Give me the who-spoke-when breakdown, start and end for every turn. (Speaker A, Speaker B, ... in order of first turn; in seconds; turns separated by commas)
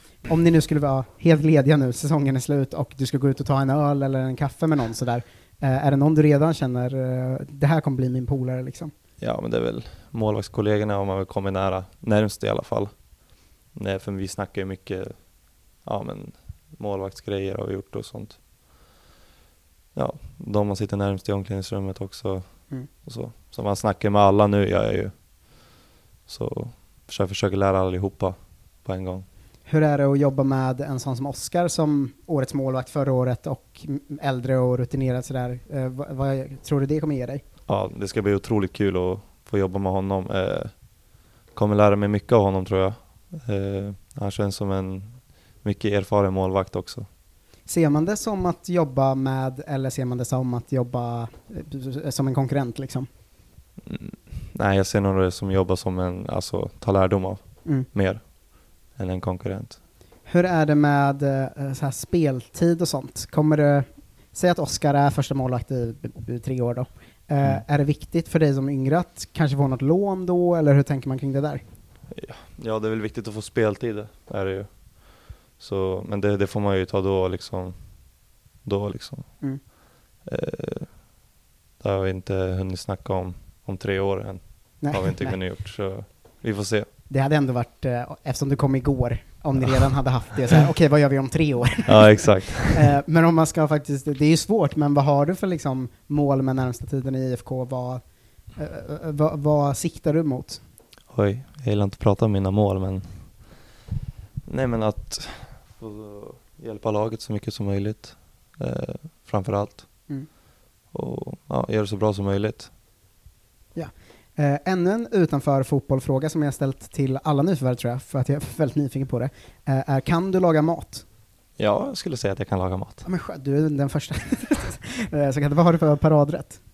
Speaker A: 0.2-8.9, Speaker B: 9.2-18.9, Speaker B: 19.9-25.7, Speaker B: 26.3-29.2, Speaker A: 29.6-37.4, Speaker B: 37.7-47.0, Speaker A: 47.6-53.1, Speaker B: 53.9-59.8, Speaker A: 60.2-71.6, Speaker B: 72.1-81.2, Speaker B: 81.8-86.9, Speaker A: 84.8-85.4, Speaker A: 87.1-100.6, Speaker B: 91.9-92.9, Speaker B: 101.1-103.7, Speaker B: 104.5-110.3, Speaker B: 110.9-112.7, Speaker A: 113.7-121.0, Speaker B: 121.6-123.0, Speaker A: 123.0-126.6